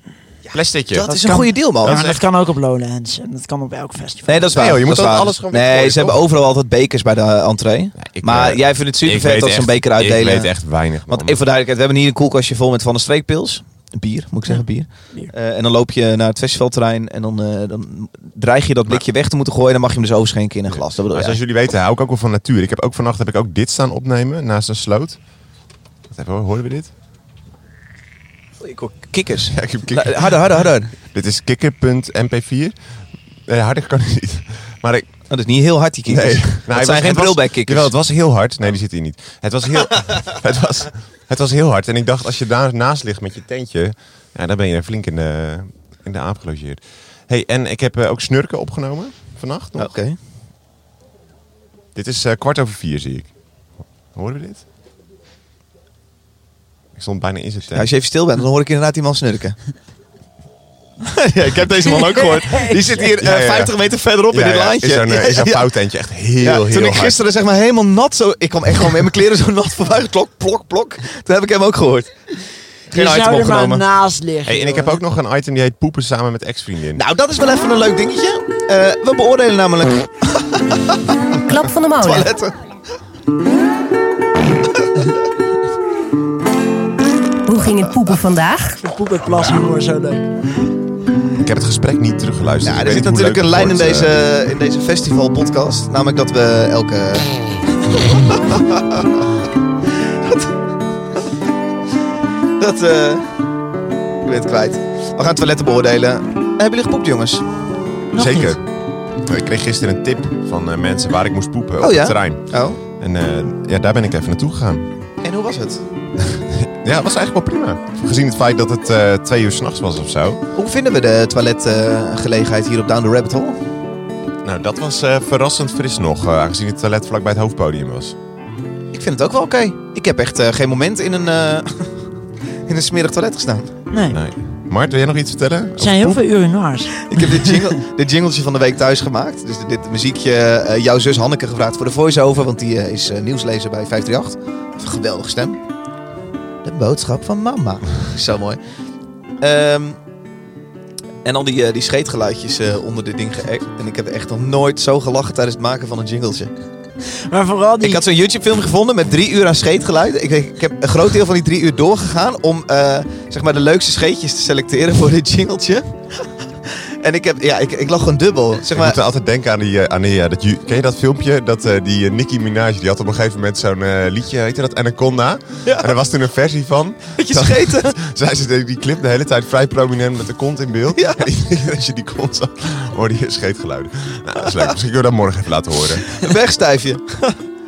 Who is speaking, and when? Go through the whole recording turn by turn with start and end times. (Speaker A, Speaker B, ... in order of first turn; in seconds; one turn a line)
Speaker A: 0.5-1.1
Speaker B: 0.9-2.1
Speaker C: 1.1-4.5
Speaker A: 1.8-2.2
Speaker B: 4.2-10.5
Speaker A: 4.5-6.2
Speaker A: 8.0-11.4
Speaker B: 11.1-21.4
Speaker C: 14.5-15.3
Speaker A: 20.7-25.2
Speaker A: 26.1-26.9
Speaker B: 28.6-30.9
Speaker A: 29.5-32.7
Speaker A: 33.5-35.1
Speaker B: 35.3-37.9
Speaker A: 36.1-49.9
Speaker B: 49.8-50.2
Speaker A: 51.9-53.3
Speaker A: 54.1-54.6
Speaker A: 57.0-57.9
Speaker B: 57.7-59.6
Speaker B: 61.0-65.7
Speaker A: 63.2-63.8
Speaker A: 64.3-67.2
Speaker B: 66.4-72.1
Speaker B: 72.9-73.8
Speaker C: 72.9-75.0
Speaker A: 74.5-77.0
Speaker B: 77.0-81.1
Speaker D: 81.4-82.3
Speaker B: 82.0-82.5
Speaker D: 87.5-88.8
Speaker C: 88.8-90.3
Speaker A: 91.4-94.2
Speaker B: 92.6-97.3
Speaker B: 98.1-98.6
Speaker B: 100.2-100.5
Speaker B: 102.6-103.4
Speaker B: 104.2-107.4
Speaker C: 108.1-108.5
Speaker A: 108.1-108.6
Speaker A: 109.2-114.9
Speaker B: 111.8-112.8
Speaker B: 115.2-115.8
Speaker A: 116.2-120.4
Speaker B: 120.5-123.6
Speaker A: 124.4-128.2
Speaker B: 128.9-132.0
Speaker B: 132.7-133.7
Speaker C: 133.9-134.2
Speaker A: 134.1-136.3
Speaker C: 135.8-137.0
Speaker B: 137.0-145.6
Speaker B: 146.6-148.6
Speaker B: 149.4-150.0
Speaker B: 151.2-156.5
Speaker C: 157.3-158.0
Speaker B: 157.8-165.9
Speaker B: 166.6-169.0
Speaker A: 168.7-186.2
Speaker B: 175.6-175.9
Speaker B: 177.2-177.9
Speaker B: 180.9-181.2
Speaker B: 186.2-187.4